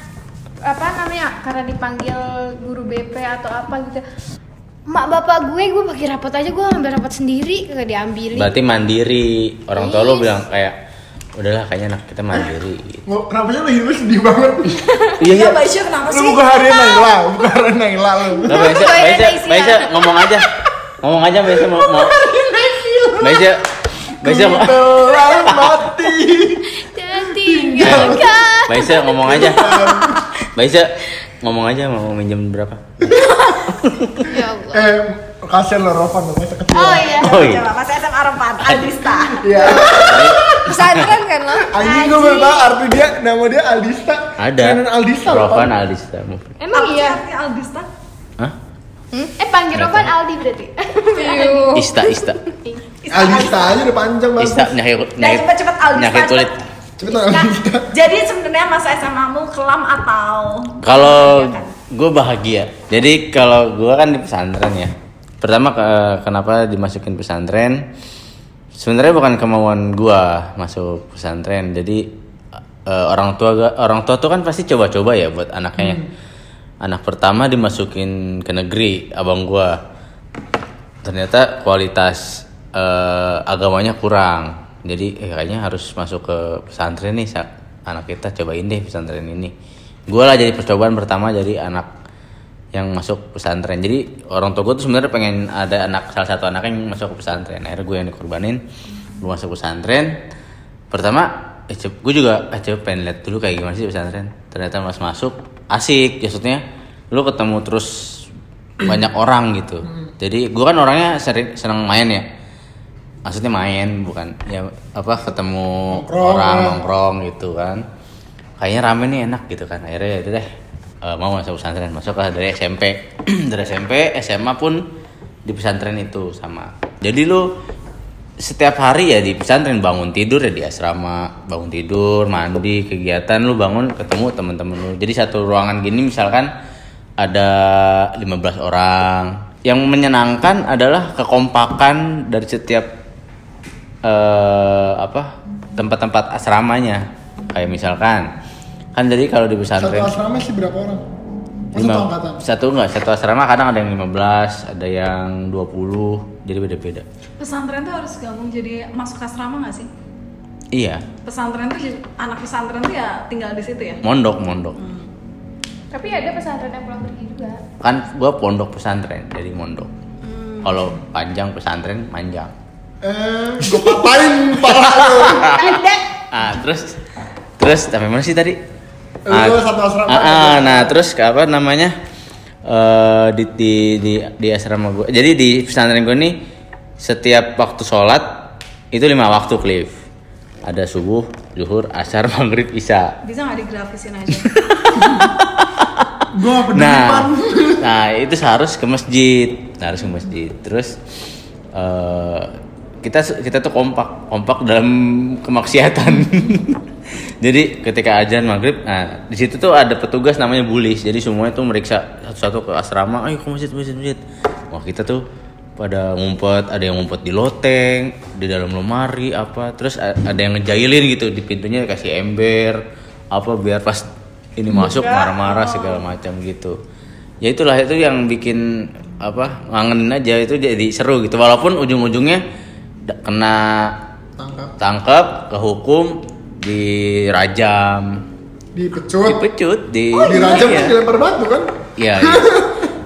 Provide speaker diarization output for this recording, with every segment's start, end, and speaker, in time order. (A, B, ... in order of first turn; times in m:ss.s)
0:00.6-0:04.0 A
0:04.9-0:08.6 A
0:08.3-0:10.8 B
0:09.8-0:10.3 A
0:11.4-0:13.0 B
0:13.1-0:14.8 C
0:15.2-0:15.6 B
0:15.2-0:17.1 D
0:16.1-0:18.8 C
0:18.5-0:20.5 B
0:18.5-0:20.3 A
0:21.0-0:22.3 B
0:22.4-0:23.4 A
0:23.2-0:23.6 B
0:24.2-0:25.9 B
0:24.2-0:26.8 C
0:26.8-0:29.8 A
0:27.3-0:28.3 C
0:27.8-0:29.6 B
0:29.2-0:30.2 C
0:30.4-0:32.8 B
0:33.7-0:34.3 B
0:34.2-0:34.9 A
0:34.7-0:37.2 C
0:36.8-0:37.5 A
0:37.0-0:40.0 D
0:37.1-0:37.7 B
0:38.6-0:38.9 B
0:39.4-0:40.7 C
0:39.7-0:39.9 A
0:39.9-0:41.1 B
0:40.6-0:41.7 E
0:41.6-0:45.7 C
0:41.8-0:42.7 A
0:44.4-0:46.6 B
0:46.6-0:47.2 A
0:46.7-0:47.9 D
0:49.4-0:51.8 A
0:49.7-0:50.1 B
0:51.2-0:52.1 E
0:51.7-0:52.4 B
0:53.0-0:53.8 D
0:53.1-0:54.8 C
0:54.4-0:56.5 B
0:55.2-0:56.6 D
0:57.0-0:57.9 C
0:57.9-1:01.7 D
1:00.8-1:07.8 B
1:08.8-1:12.1 B
1:12.9-1:16.1 B
1:15.8-1:16.0 C
1:16.8-1:19.8 B
1:21.0-1:29.5 B
1:30.1-1:31.9 B
1:32.7-1:38.6 B
1:39.2-1:40.1 B
1:40.9-1:48.2 B
1:48.8-1:52.2 B
1:53.2-1:57.8 B
1:55.9-1:56.8 C
1:58.6-2:00.5 B
2:01.0-2:04.8 B
2:05.5-2:07.5 B
2:08.4-2:16.5 B
2:17.2-2:22.9 B
2:24.0-2:28.3 B
2:29.0-2:30.1 B
2:29.8-2:31.0 C
2:31.7-2:32.4 C
2:31.8-2:37.0 B
2:37.4-2:39.9 D
2:40.7-2:41.1 B
2:41.2-2:44.0 D
2:44.0-2:44.8 B
2:44.8-2:45.0 D
2:45.9-2:47.6 A
2:47.8-2:49.9 B
2:50.2-2:50.7 D
2:50.6-2:52.5 B
2:53.0-2:55.5 C
2:54.7-2:57.0 B
2:55.3-2:56.0 A
2:57.6-2:58.6 B
2:59.3-3:01.0 C
2:59.3-3:01.9 B
3:02.7-3:06.4 B
3:07.0-3:08.3 B
3:08.9-3:09.9 B
3:10.6-3:13.1 B
3:13.2-3:15.3 D
3:14.5-3:21.0 B
3:16.3-3:17.8 C
3:21.7-3:22.5 B
3:23.0-3:26.8 B
3:27.4-3:35.2 B
3:35.8-3:44.0 B
3:44.6-3:46.8 B
3:44.8-3:46.0 D
3:47.4-3:52.4 B
3:53.1-3:54.0 B
3:54.4-3:54.7 C
3:54.8-3:58.2 B
3:58.7-3:59.4 C
3:59.3-4:01.0 B
4:00.2-4:00.9 D
4:00.2-4:02.9 C
4:02.0-4:02.6 B